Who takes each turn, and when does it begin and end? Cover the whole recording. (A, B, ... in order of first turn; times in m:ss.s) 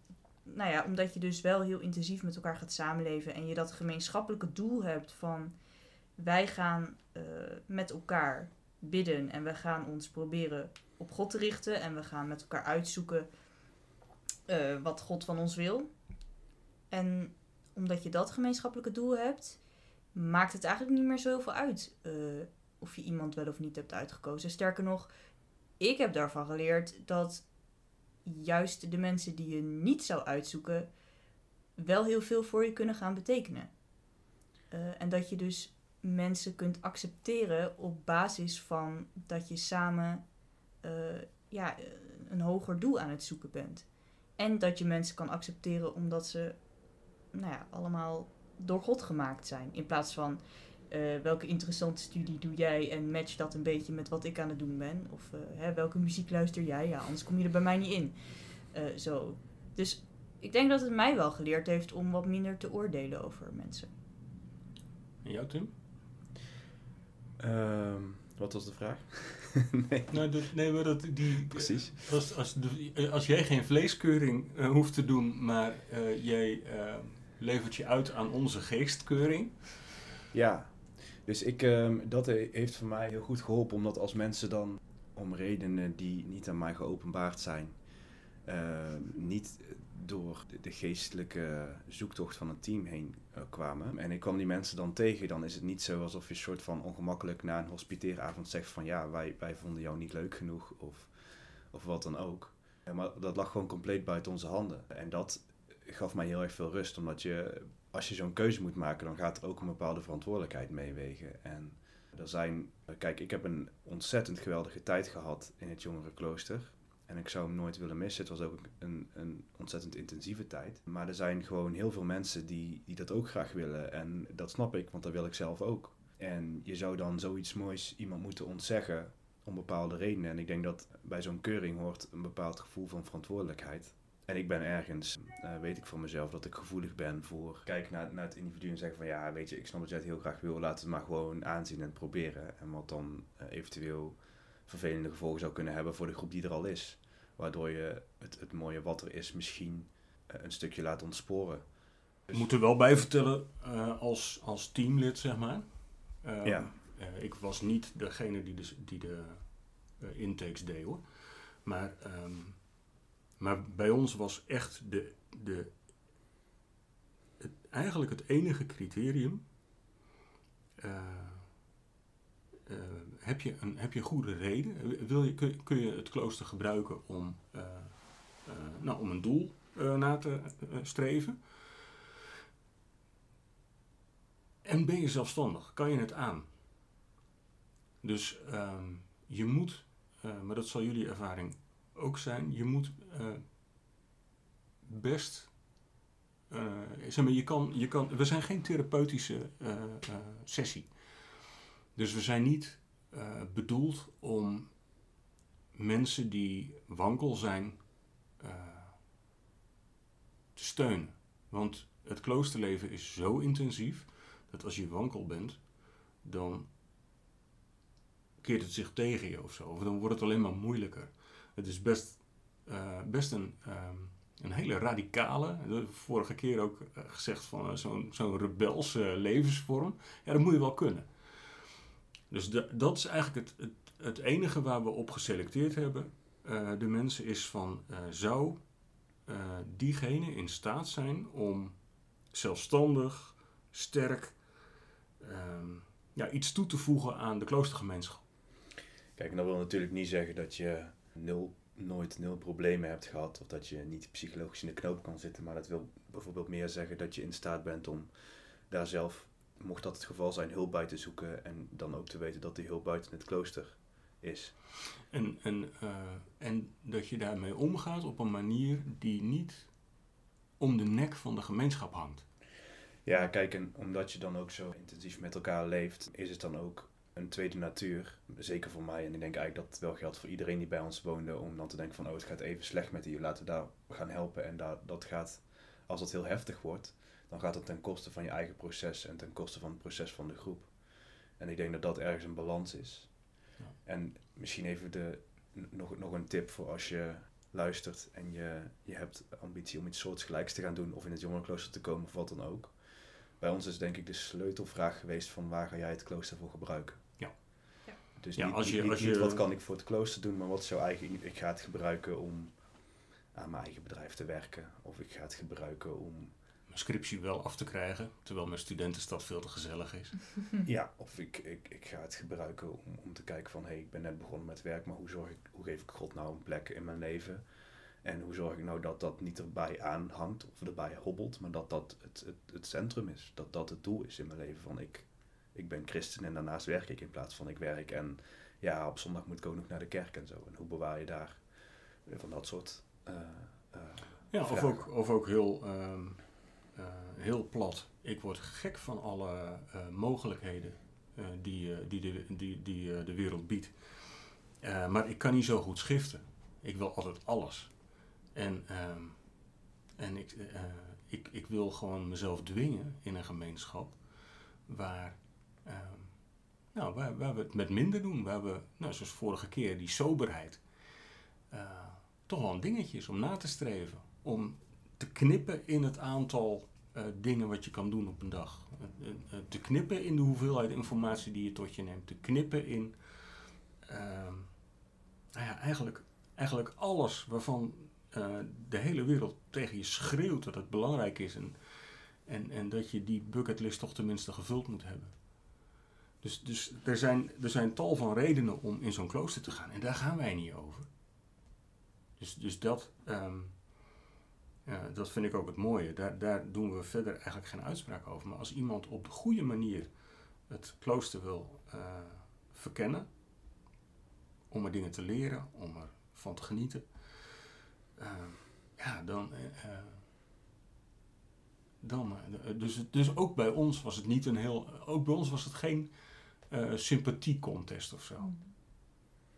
0:00.4-0:05.5 A
0:06.2-0:13.3 A
0:14.5-0:15.9 A
0:16.9-0:25.1 A
0:25.7-0:27.5 A
0:28.2-0:30.9 A
0:31.8-0:33.8 A
0:34.7-0:40.3 A
0:40.8-1:03.9 A
1:05.2-1:05.7 B
1:07.4-1:10.2 C
1:10.1-1:20.0 B
1:11.5-1:12.2 C
1:20.3-1:27.8 C
1:28.4-2:31.7 C
2:32.3-2:45.8 B
2:36.4-2:36.7 C
2:47.4-2:49.5 B
2:50.8-2:51.6 B
2:52.6-3:01.9 B
3:04.6-3:06.5 B
3:08.0-3:13.5 B
3:14.8-3:15.8 B
3:16.5-3:24.9 B
3:25.7-3:29.0 B
3:30.5-3:36.7 B
3:38.4-3:51.7 B
3:52.3-4:04.5 B
4:05.2-4:08.2 B
4:09.2-4:24.6 C
4:25.1-4:29.9 B
4:30.6-4:32.3 B
4:33.0-4:53.3 C
4:53.8-5:07.4 C
5:07.2-5:09.4 B
5:08.2-5:16.3 C
5:16.7-5:20.4 B
5:20.6-5:27.5 C
5:28.0-5:44.9 C
5:44.3-6:10.8 B
6:11.5-6:24.7 B
6:25.3-6:40.9 B
6:42.2-6:44.1 B
6:44.6-6:53.1 B
6:54.5-7:00.1 B
7:01.8-7:08.3 B
7:08.2-7:08.5 A